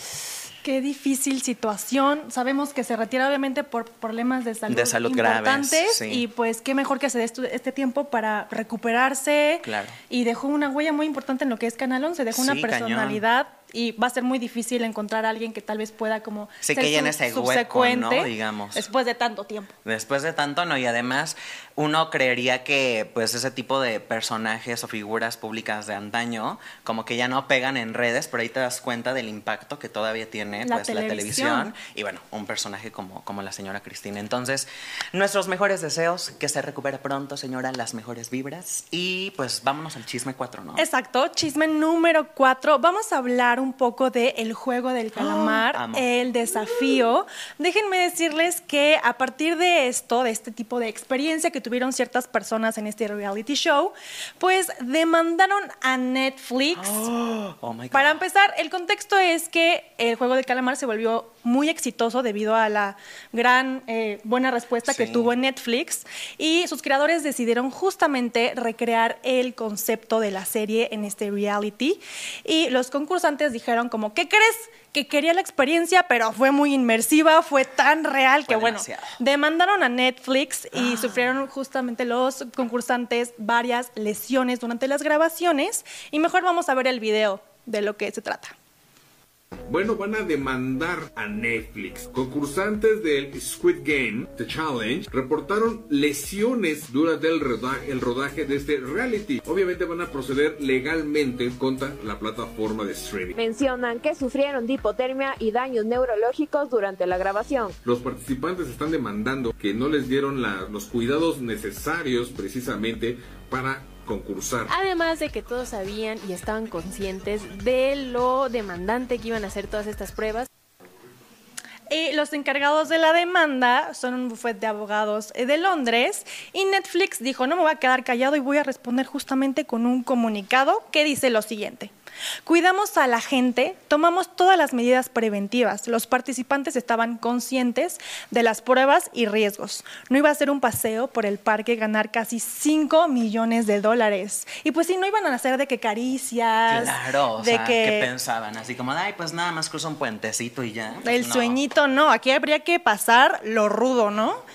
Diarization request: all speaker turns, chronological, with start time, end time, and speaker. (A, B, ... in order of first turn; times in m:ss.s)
0:00.6-0:19.7 A
0:04.7-0:06.3 B
0:09.6-0:10.0 B
0:12.3-0:13.2 B
0:16.6-0:18.9 B
0:19.8-0:40.8 B
0:30.6-0:31.7 A
0:40.8-0:57.1 A
0:45.2-0:46.1 B
0:56.8-0:58.2 B
0:57.9-1:28.5 A
1:04.9-1:05.3 B
1:18.5-1:19.2 B
1:29.7-1:43.4 C
1:43.4-1:47.7 D
1:47.9-1:54.6 C
1:54.7-2:00.5 E
2:01.9-2:11.9 A
2:12.5-2:28.1 A
2:26.7-2:31.6 B
2:31.0-2:34.4 A